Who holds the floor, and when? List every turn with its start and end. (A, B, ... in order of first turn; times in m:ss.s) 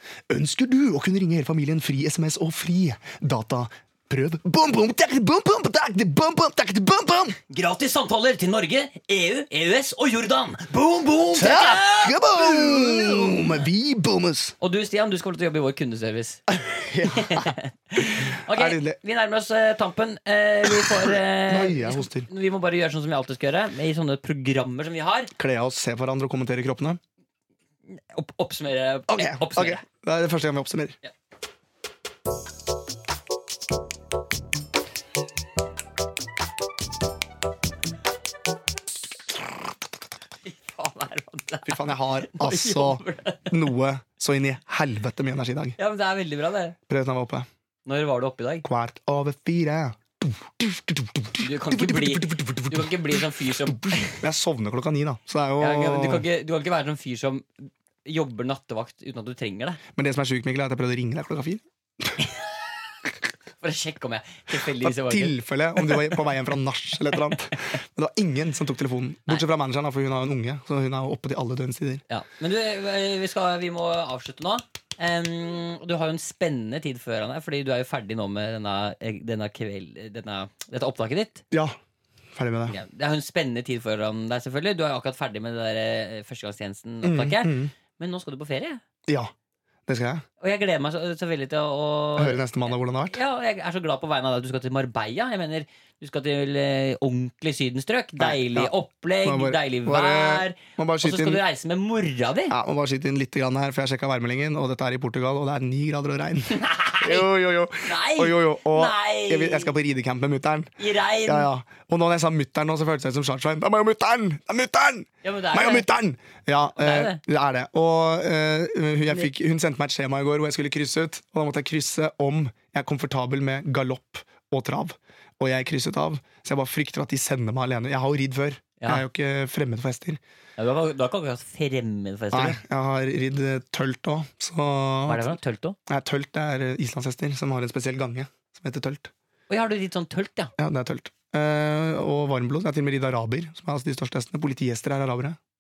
0:00.3-0:07.4 A
0:07.5-0:13.6 B
0:11.3-0:14.5 A
0:14.6-0:16.4 B
0:16.6-0:17.5 A
0:17.0-0:25.3 B
0:18.1-0:19.0 A
0:20.7-0:22.3 A
0:25.4-0:27.0 A
0:27.9-0:29.8 B
0:29.1-0:31.0 A
0:40.4-0:43.5 B
0:41.6-0:45.8 A
0:45.8-0:46.8 B
0:46.9-0:47.5 A
0:47.8-0:48.7 B
0:48.6-0:56.2 A
0:51.4-0:54.2 B
0:55.6-0:59.8 B
0:59.9-1:02.2 A
1:03.6-1:06.1 B
1:04.6-1:12.0 A
1:12.1-1:21.4 B
1:21.5-1:21.8 A
1:22.3-1:22.8 A
1:22.7-1:28.8 B
1:27.0-1:27.7 A
1:29.1-1:29.3 A
1:29.9-1:30.2 A
1:30.4-1:42.5 B
1:32.2-1:33.2 A
1:38.2-1:38.7 A
1:39.2-1:41.4 A
1:42.5-1:50.7 A
1:46.5-1:47.3 B
1:47.8-1:49.7 B
1:50.8-1:51.5 B
1:51.2-2:10.2 A
1:55.2-1:55.9 B
1:56.8-1:57.2 B
2:08.8-2:09.0 B
2:10.6-2:12.6 B
2:12.3-2:15.3 A
2:15.0-2:15.8 B
2:15.9-2:19.1 A
2:19.5-2:20.5 B
2:20.6-2:25.4 A